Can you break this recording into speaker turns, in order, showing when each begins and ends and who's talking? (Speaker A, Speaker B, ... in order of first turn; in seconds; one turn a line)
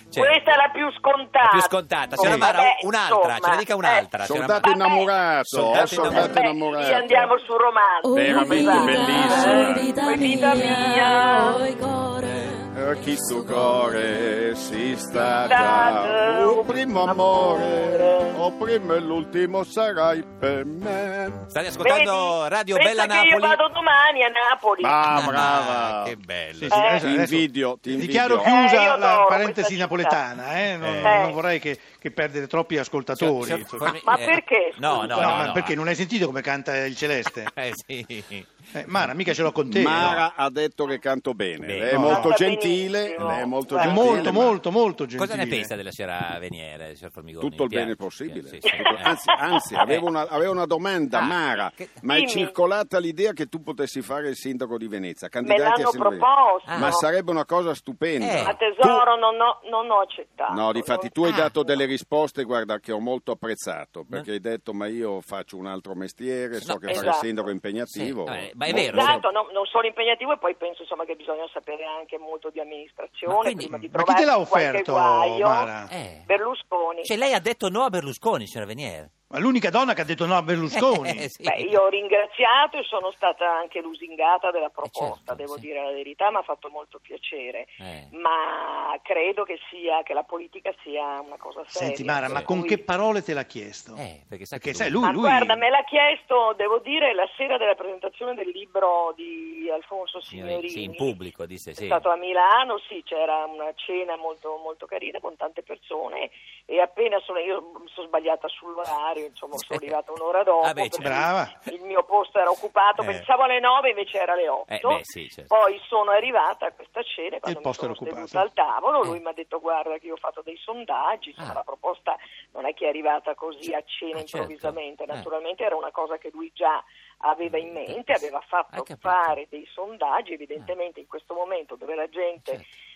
Speaker A: 0.1-0.5
Speaker B: 0.1-4.1
Speaker A: 1.4-4.7
Speaker C: 2.2-2.5
Speaker D: 4.2-7.3
Speaker B: 4.6-5.2
Speaker A: 5.5-6.4
Speaker B: 5.8-11.7
Speaker E: 8.0-14.1
Speaker D: 8.1-9.9
Speaker D: 12.7-21.5
Speaker B: 15.4-18.4
Speaker A: 21.5-23.6
Speaker B: 21.8-25.3
Speaker D: 24.8-26.2
Speaker A: 25.1-26.9
Speaker C: 26.6-34.0
Speaker B: 26.7-27.1
Speaker D: 27.0-28.5
Speaker B: 28.4-30.2
Speaker A: 30.8-31.2
Speaker B: 31.0-31.4
Speaker A: 33.2-35.8
Speaker B: 34.0-35.5
Speaker C: 34.9-37.5
Speaker A: 37.5-38.5
Speaker C: 38.7-40.2
Speaker D: 39.7-44.6
Speaker A: 39.9-40.2
Speaker A: 41.6-42.0
Speaker C: 41.9-42.3
Speaker B: 42.0-44.4
Speaker C: 43.8-45.7
Speaker A: 45.2-49.2
Speaker D: 47.4-59.1
Speaker B: 48.7-49.9
Speaker A: 49.8-50.1
Speaker A: 51.1-51.9
Speaker B: 52.1-52.6
Speaker B: 55.4-57.1
Speaker A: 56.7-57.0
Speaker A: 58.2-58.6
Speaker B: 58.4-61.8
Speaker D: 60.5-69.2
Speaker A: 61.2-61.5
Speaker A: 66.5-67.2
Speaker B: 66.9-67.5
Speaker A: 67.9-69.2
Speaker B: 68.7-75.7
Speaker A: 73.3-73.9
Speaker C: 73.7-75.9
Speaker A: 75.9-76.3
Speaker B: 76.3-77.1
Speaker A: 77.0-79.1
Speaker C: 79.3-81.3
Speaker A: 80.7-81.8
Speaker B: 81.4-92.8
Speaker A: 84.9-85.7
Speaker A: 87.8-88.1
Speaker C: 91.7-94.0
Speaker A: 94.0-95.0
Speaker C: 94.6-95.6
Speaker B: 95.0-101.2
Speaker A: 100.3-102.0
Speaker B: 101.8-132.6
Speaker A: 109.5-110.0
Speaker A: 110.6-111.2
Speaker C: 111.0-111.5
Speaker A: 113.0-113.2
Speaker A: 114.7-115.5
Speaker C: 117.5-118.5
Speaker A: 124.1-125.3
Speaker A: 127.5-128.2
Speaker A: 128.7-129.4